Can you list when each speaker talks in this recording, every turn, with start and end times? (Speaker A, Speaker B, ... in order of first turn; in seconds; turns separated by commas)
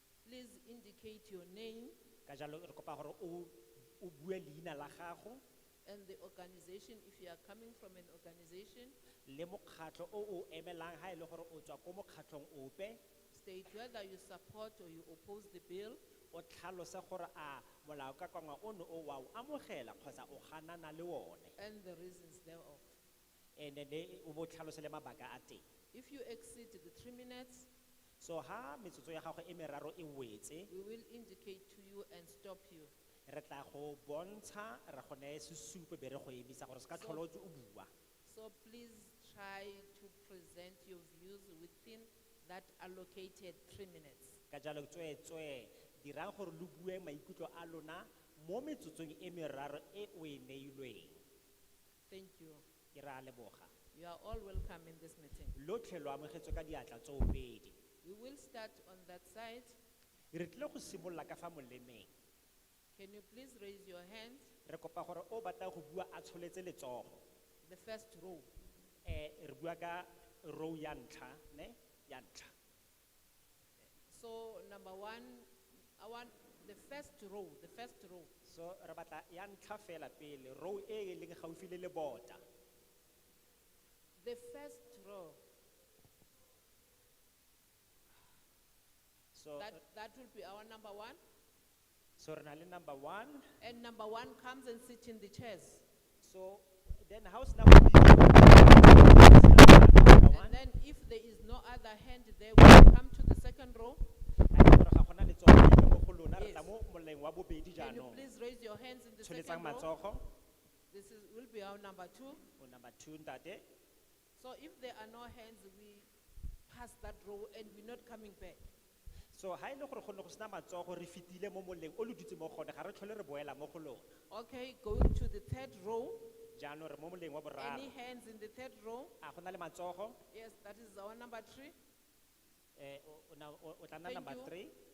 Speaker A: 0.2-2.0, Speaker B: 2.3-5.4, Speaker A: 5.8-9.0, Speaker B: 9.3-13.0, Speaker A: 13.3-16.0, Speaker B: 16.3-21.6, Speaker A: 21.6-22.9, Speaker B: 23.6-25.6, Speaker A: 25.9-27.7, Speaker B: 28.2-30.7, Speaker A: 30.7-32.9, Speaker B: 33.3-37.9, Speaker A: 36.9-37.2, Speaker A: 38.2-44.4, Speaker B: 44.5-51.2, Speaker A: 52.1-52.6, Speaker B: 52.9-53.7, Speaker A: 53.9-55.6, Speaker B: 55.5-57.8, Speaker A: 58.0-59.8, Speaker B: 60.3-62.1, Speaker A: 62.9-64.5, Speaker B: 64.7-67.2, Speaker A: 67.7-68.5, Speaker B: 69.0-72.5, Speaker A: 74.1-78.3, Speaker B: 78.5-82.4, Speaker A: 84.2-85.4, Speaker B: 89.3-89.8, Speaker A: 89.6-91.2, Speaker B: 92.2-93.5, Speaker A: 93.6-95.8, Speaker B: 96.2-100.6, Speaker A: 100.3-104.1, Speaker B: 104.5-108.3, Speaker A: 106.4-106.7, Speaker A: 107.8-109.9, Speaker B: 109.2-110.2, Speaker A: 110.9-112.5, Speaker B: 112.6-113.7, Speaker A: 114.4-116.1, Speaker A: 116.7-118.6, Speaker B: 119.3-124.1, Speaker A: 124.3-126.3, Speaker B: 126.5-127.9, Speaker A: 127.6-129.2, Speaker B: 129.2-130.2, Speaker A: 130.3-131.8, Speaker B: 132.8-134.7, Speaker A: 134.0-134.5